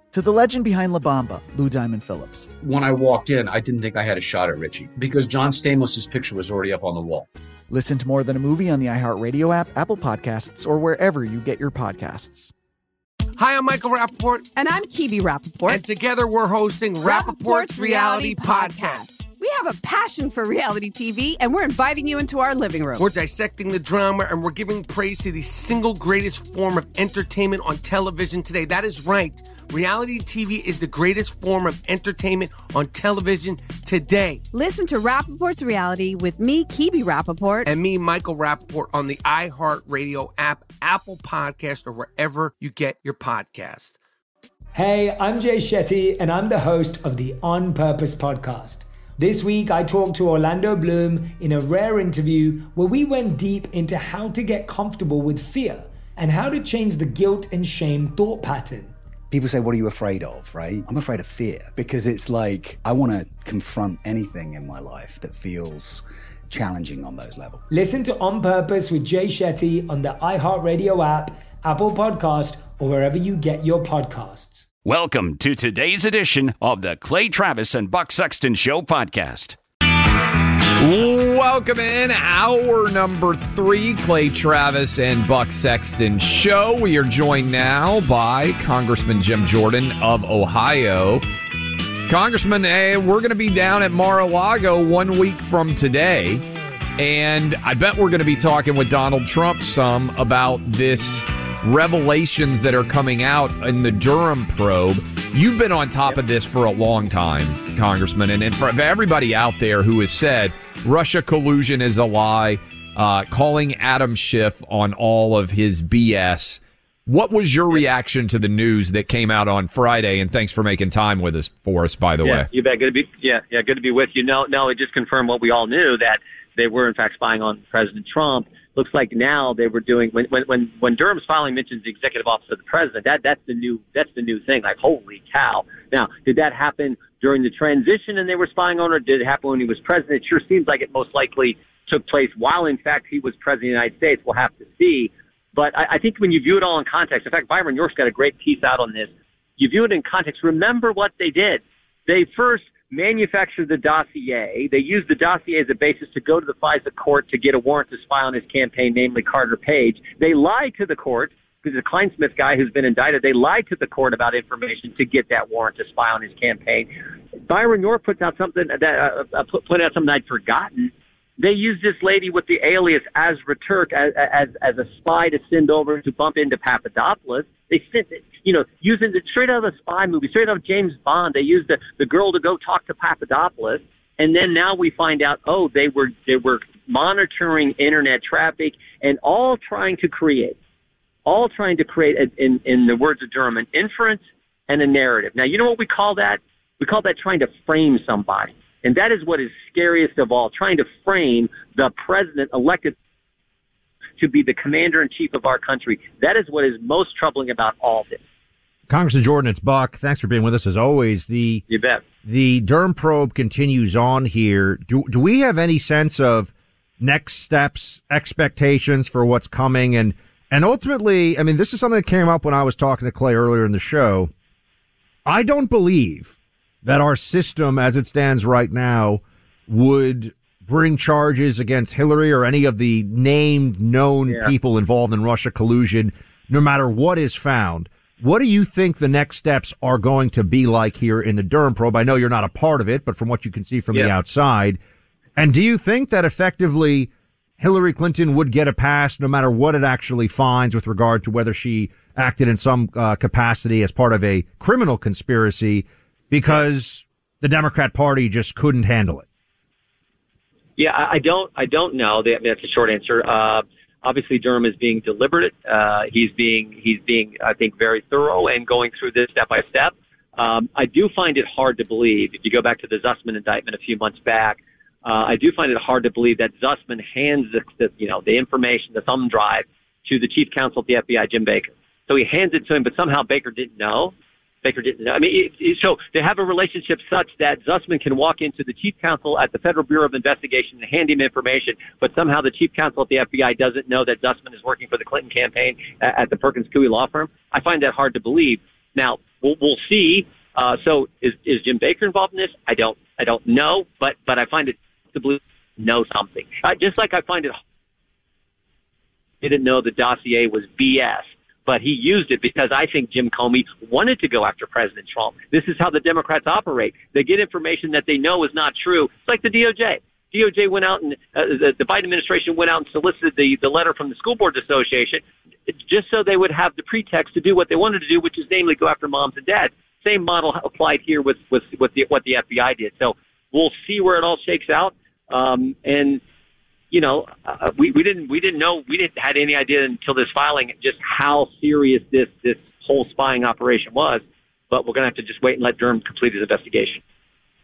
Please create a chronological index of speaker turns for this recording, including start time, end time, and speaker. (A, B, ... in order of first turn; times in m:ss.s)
0:00.1-0:02.5 A
0:02.6-0:07.3 B
0:07.7-0:12.5 A
0:13.4-0:14.5 C
0:14.6-0:15.8 D
0:15.7-0:19.1 C
0:17.0-0:23.1 D
0:23.0-0:34.4 C
0:34.5-0:37.7 D
0:37.6-0:44.0 C
0:44.8-0:59.0 E
0:59.3-1:07.6 F
1:07.7-1:14.6 E
1:14.8-1:19.6 G
1:20.8-1:31.2 H
1:32.1-1:36.4 H
1:37.0-2:02.5 H
2:02.2-2:46.9 I
2:47.5-3:10.6 I
3:11.3-3:23.0 I
3:24.2-3:28.2 I
3:28.9-3:31.6 J
3:31.7-3:32.0 I
3:32.2-3:44.3 J
3:45.3-4:04.8 J
3:54.3-3:54.5 I
4:05.4-4:19.3 J
4:20.8-5:07.6 I
5:09.4-5:36.2 I
5:36.9-5:47.0 I